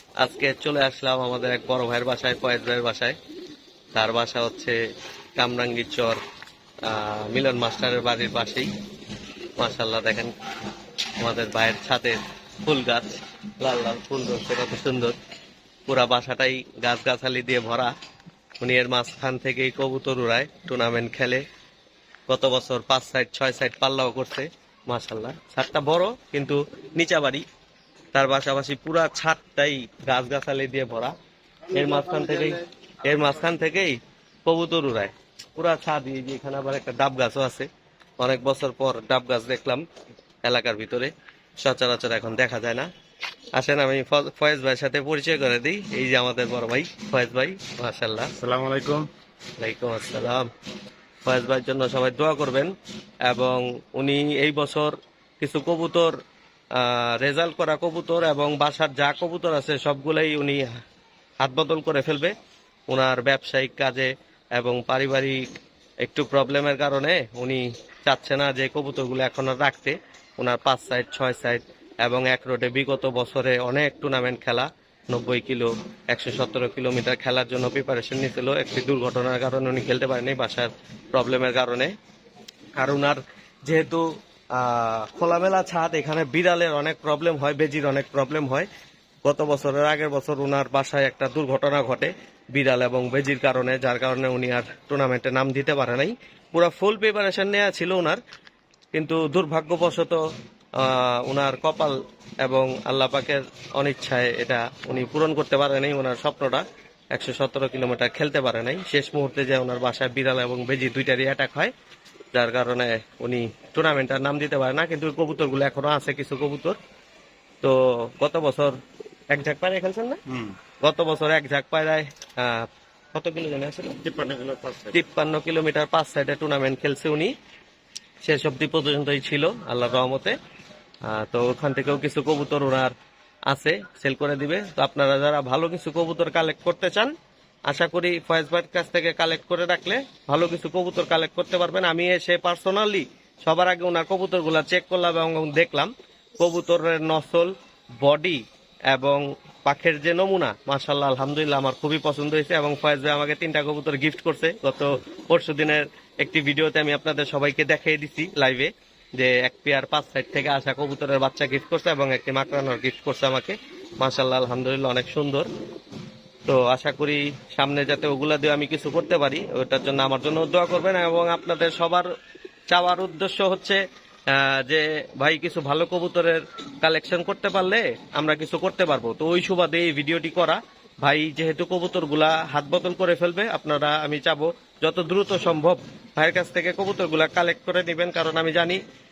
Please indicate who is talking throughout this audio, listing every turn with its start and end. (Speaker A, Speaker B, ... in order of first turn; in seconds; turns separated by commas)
Speaker A: 0.2-3.2, Speaker A: 3.9-4.8, Speaker A: 5.4-6.2, Speaker A: 6.8-8.7, Speaker A: 9.6-10.3, Speaker A: 11.2-15.2, Speaker A: 15.9-17.9, Speaker A: 18.6-21.4, Speaker A: 22.3-27.4, Speaker A: 28.1-31.1, Speaker B: 31.7-32.6, Speaker A: 31.7-37.7, Speaker A: 38.2-39.8, Speaker A: 40.4-42.9, Speaker A: 43.6-48.3, Speaker B: 48.4-49.1, Speaker A: 49.6-50.5, Speaker A: 51.2-52.7, Speaker A: 53.2-56.1, Speaker A: 56.7-60.7, Speaker A: 61.4-62.3, Speaker A: 62.9-65.4, Speaker A: 66.0-81.9, Speaker A: 82.8-88.7, Speaker A: 89.2-98.2, Speaker A: 98.9-100.2, Speaker A: 100.8-111.7, Speaker A: 112.3-116.8, Speaker A: 117.6-118.8, Speaker A: 119.3-120.2, Speaker B: 120.3-120.5, Speaker A: 120.8-124.0, Speaker B: 124.0-125.0, Speaker A: 124.9-127.3, Speaker A: 128.2-130.4, Speaker A: 131.1-132.9, Speaker A: 133.5-137.1, Speaker A: 137.7-165.5, Speaker A: 166.5-172.1, Speaker A: 172.7-188.8